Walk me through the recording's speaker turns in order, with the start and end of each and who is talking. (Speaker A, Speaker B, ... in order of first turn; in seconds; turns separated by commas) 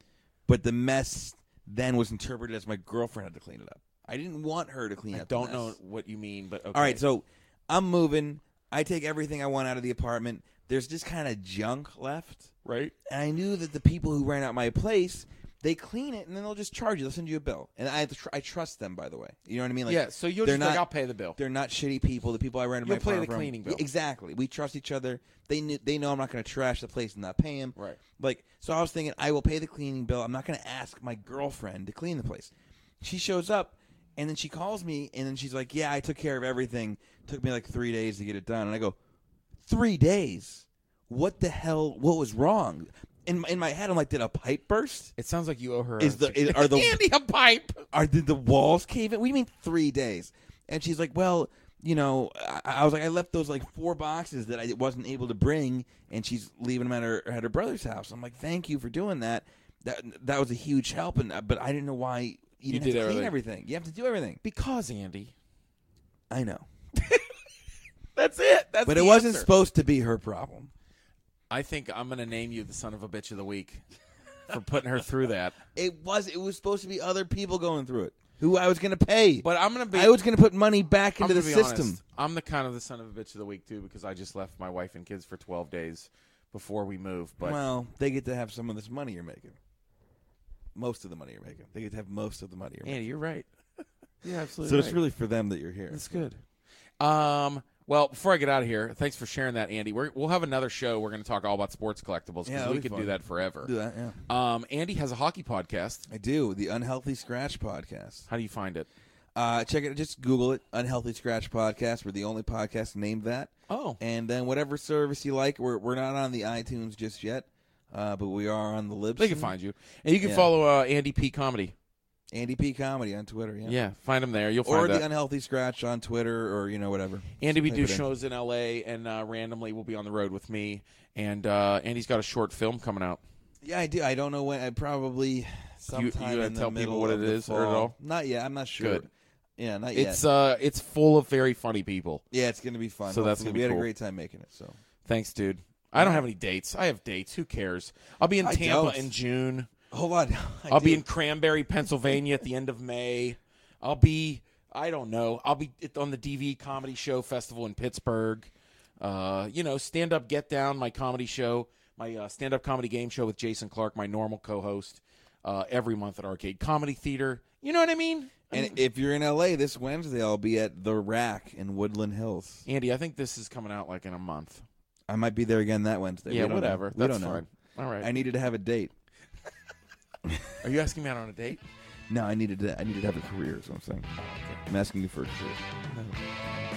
Speaker A: 0.5-5.8, Speaker B: 5.1-7.0, Speaker A: 6.7-12.5, Speaker B: 12.6-12.9, Speaker A: 13.1-39.0, Speaker B: 19.9-21.4, Speaker B: 22.8-23.9, Speaker A: 39.6-45.1, Speaker B: 45.2-47.9, Speaker A: 46.0-47.0, Speaker A: 47.9-64.4, Speaker B: 62.7-63.4, Speaker B: 64.4-65.3, Speaker A: 66.3-66.7, Speaker B: 67.0-67.3, Speaker B: 68.2-69.5, Speaker A: 68.8-70.7, Speaker B: 71.5-73.8, Speaker B: 74.5-75.6, Speaker A: 75.7-82.0, Speaker B: 79.4-80.2, Speaker B: 81.2-87.6, Speaker A: 87.4-89.6, Speaker A: 90.8-93.0, Speaker B: 92.8-95.0, Speaker A: 94.6-96.3, Speaker B: 95.9-96.4, Speaker B: 97.0-103.7, Speaker A: 102.5-104.2, Speaker B: 104.3-106.1, Speaker A: 106.1-108.3, Speaker B: 108.3-108.9, Speaker A: 109.3-119.5, Speaker B: 113.7-114.0, Speaker B: 119.2-121.8, Speaker A: 120.2-120.5, Speaker A: 122.3-123.8, Speaker B: 123.7-125.0, Speaker A: 124.6-128.1, Speaker B: 127.4-133.2, Speaker A: 133.6-140.2, Speaker B: 135.9-137.9, Speaker B: 138.8-139.1, Speaker B: 139.9-142.2, Speaker A: 142.3-144.8, Speaker B: 143.1-143.9, Speaker B: 145.1-149.7, Speaker A: 146.0-146.3, Speaker A: 148.4-149.1, Speaker A: 149.9-151.1, Speaker B: 150.7-168.8, Speaker A: 168.5-172.7, Speaker B: 172.7-174.7, Speaker A: 175.1-177.4, Speaker B: 176.3-178.2, Speaker A: 178.0-178.9, Speaker A: 180.2-180.5, Speaker B: 180.6-181.6, Speaker A: 182.1-185.7, Speaker B: 184.2-184.6, Speaker B: 185.9-186.2